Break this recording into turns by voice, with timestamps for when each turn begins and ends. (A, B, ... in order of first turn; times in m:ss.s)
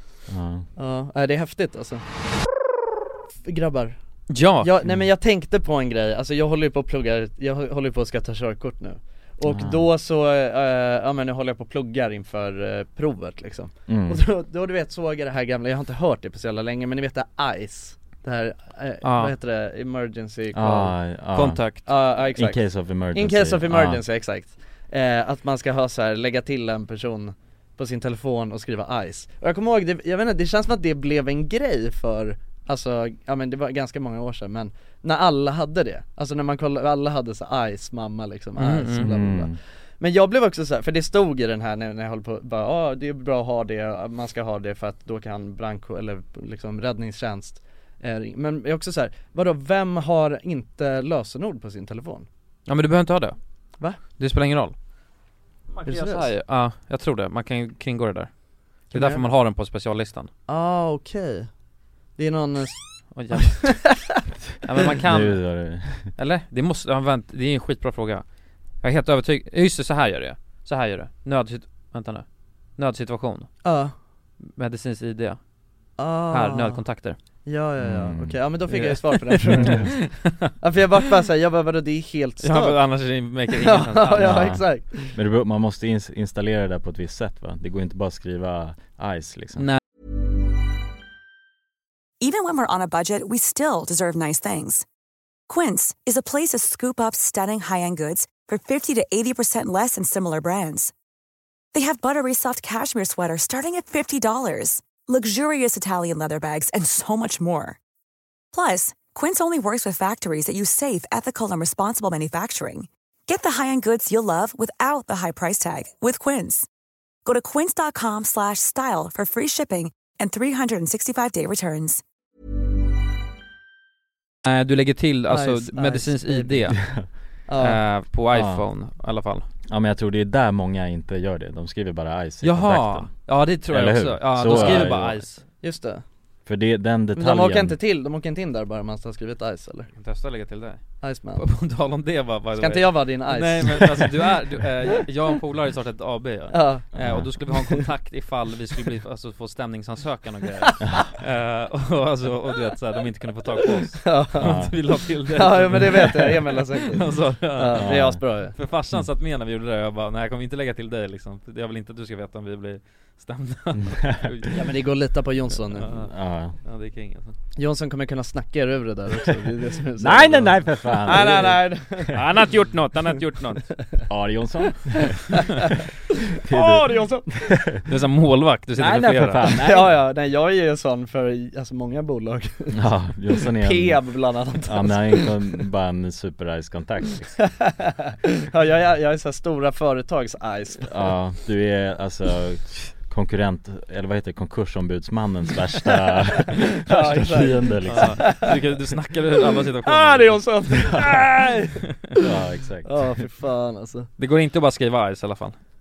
0:00.3-0:00.7 A
0:00.8-0:02.0 B
0:03.4-0:21.0 B
0:04.3-0:04.7 C
0:09.4-0:09.8 A
0:13.9-0:14.2 A
0:19.0-0:19.3 C
0:20.5-0:24.0 A
0:21.3-0:21.8 C
0:21.8-0:22.6 B
0:23.1-0:52.3 B
0:38.6-0:39.1 C
0:38.9-0:39.6 A
0:52.7-0:53.4 C
0:54.1-0:54.7 C
0:55.8-0:58.3 C
0:55.8-0:56.3 B
0:58.8-1:00.3 C
0:58.9-0:59.2 B
1:00.5-1:01.5 B
1:02.2-1:02.8 B
1:03.1-1:04.0 C
1:03.6-1:04.1 B
1:04.6-1:08.2 C
1:05.0-1:06.1 A
1:08.8-1:13.6 C
1:13.6-1:13.9 B
1:14.4-1:15.4 C
1:16.0-1:16.8 B
1:16.3-1:17.2 C
1:17.4-1:22.8 B
1:17.8-1:18.4 A
1:18.7-1:20.4 C
1:19.6-1:19.9 A
1:22.4-1:24.6 C
1:23.6-1:25.1 B
1:24.2-1:29.7 A
1:32.2-1:34.8 D
1:35.5-1:40.9 D
1:41.7-1:47.8 D
1:48.5-1:56.7 D
1:57.2-2:02.0 D
2:04.4-2:06.8 C
2:05.3-2:06.8 B
2:06.8-2:07.1 A
2:07.5-2:07.8 B
2:07.6-2:09.4 C
2:08.3-2:08.6 A
2:09.7-2:15.2 A
2:12.4-2:15.4 C
2:14.5-2:14.9 B
2:15.6-2:16.0 B
2:16.4-2:17.8 A
2:17.1-2:19.9 B
2:20.0-2:36.4 C
2:21.0-2:21.4 B
2:22.6-2:24.0 B
2:26.5-2:27.8 B
2:26.9-2:27.3 A
2:30.8-2:31.1 A
2:34.0-2:34.7 B
2:34.4-2:34.8 A
2:35.3-2:38.5 B
2:36.9-2:44.7 C
2:37.7-2:38.2 A
2:43.8-2:44.3 A
2:44.5-2:45.9 B
2:45.7-2:46.1 C
2:45.9-2:46.6 A
2:46.6-2:47.3 C
2:47.6-2:52.2 B
2:50.0-2:52.2 A
2:52.1-2:53.7 C
2:54.1-2:55.6 A
2:56.4-2:57.8 A
2:56.5-2:57.5 B
2:57.9-2:59.6 C
2:58.8-2:59.9 A
2:59.5-3:02.8 B
3:02.7-3:04.0 A
3:03.3-3:05.6 B
3:04.6-3:07.6 A
3:07.6-3:11.1 B
3:10.8-3:18.5 A
3:16.8-3:18.5 B
3:17.9-3:20.5 C
3:19.8-3:22.2 B
3:20.9-3:21.2 A
3:22.1-3:23.1 A
3:22.8-3:24.1 B
3:24.2-3:25.6 C